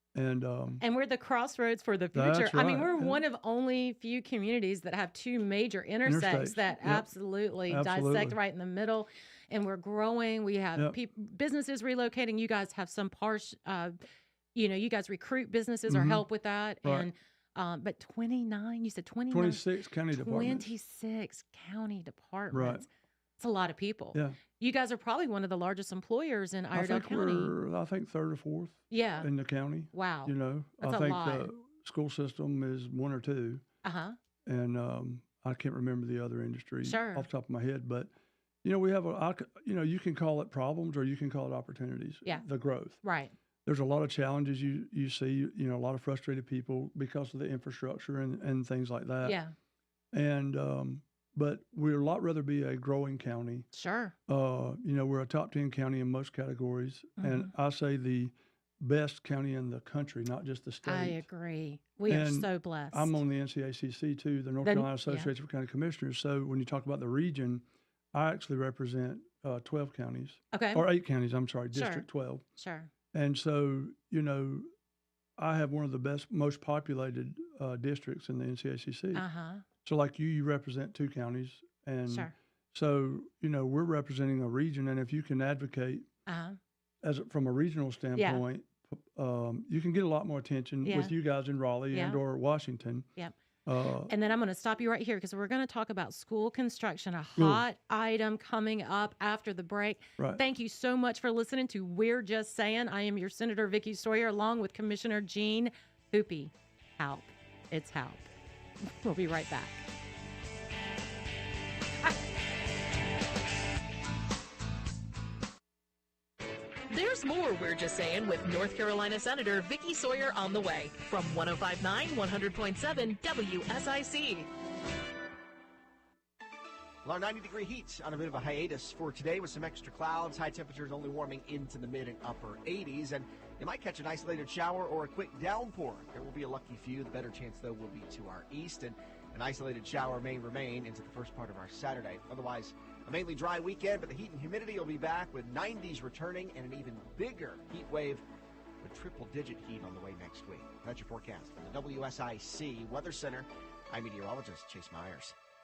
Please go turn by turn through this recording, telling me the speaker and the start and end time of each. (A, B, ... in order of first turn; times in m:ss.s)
0:00.2-0:00.8 A
0:00.8-0:14.0 B
0:02.1-0:03.2 A
0:06.0-0:07.1 A
0:07.7-0:08.4 A
0:14.6-0:22.9 B
0:15.9-0:16.2 A
0:16.8-0:17.1 A
0:19.3-0:20.7 A
0:22.5-0:22.8 A
0:23.4-0:27.5 B
0:24.1-0:24.4 A
0:26.7-0:33.6 A
0:28.9-0:29.3 B
0:29.9-0:31.5 B
0:33.8-0:34.2 B
0:34.5-0:38.1 A
0:36.8-0:37.3 B
0:38.6-0:43.0 A
0:43.0-0:43.3 B
0:43.7-0:49.4 A
0:49.2-0:49.5 B
0:50.1-0:53.7 A
0:53.7-0:54.2 B
0:54.3-1:01.2 A
0:57.2-0:57.5 B
1:00.9-1:03.2 B
1:02.1-1:12.4 A
1:04.6-1:05.3 B
1:10.5-1:10.9 B
1:11.7-1:12.9 B
1:13.1-1:14.7 A
1:15.4-1:19.2 A
1:19.2-1:19.6 B
1:19.8-1:26.1 A
1:22.1-1:22.3 B
1:26.3-1:26.6 B
1:27.0-1:33.1 A
1:28.2-1:28.4 B
1:30.8-1:31.1 B
1:31.9-1:32.2 B
1:33.7-1:34.1 A
1:34.1-1:48.3 B
1:37.4-1:37.6 A
1:48.8-1:49.8 B
1:56.9-2:04.5 C
2:07.0-2:28.2 D
2:28.8-2:35.4 D